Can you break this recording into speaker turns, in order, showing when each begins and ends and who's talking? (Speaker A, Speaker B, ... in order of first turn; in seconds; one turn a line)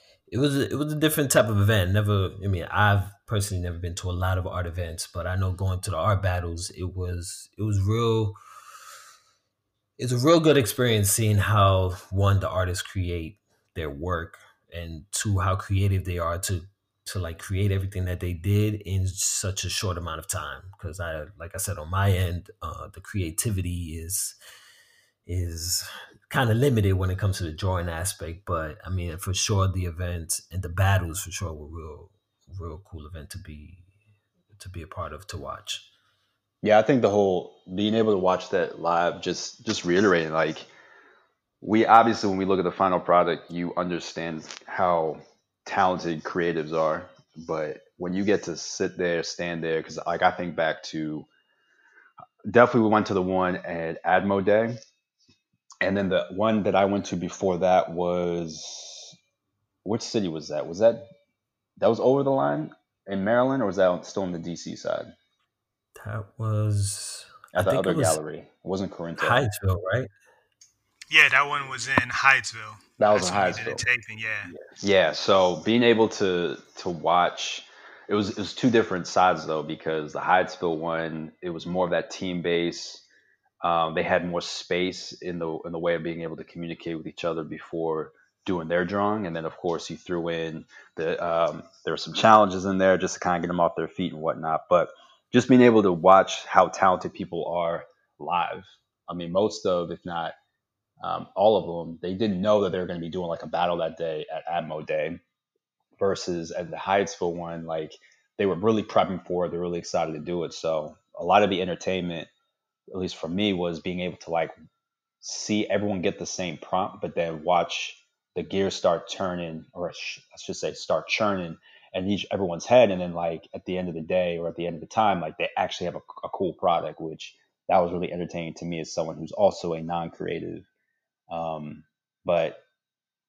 Speaker A: 0.3-8.4
Speaker A: 10.0-24.4
Speaker A: 25.3-33.9
Speaker A: 34.5-35.9
Speaker B: 36.6-40.7
Speaker B: 41.6-51.3
Speaker B: 52.5-54.8
Speaker B: 55.8-59.2
Speaker B: 59.9-61.1
Speaker B: 61.8-65.1
Speaker A: 66.0-68.2
Speaker B: 67.5-69.4
Speaker A: 69.2-70.1
Speaker C: 71.1-74.5
Speaker B: 73.0-73.8
Speaker B: 74.5-83.0
Speaker B: 83.6-100.3
Speaker B: 101.0-105.2
Speaker B: 106.0-112.3
Speaker B: 112.9-114.5
Speaker B: 115.2-130.7
Speaker B: 131.3-132.6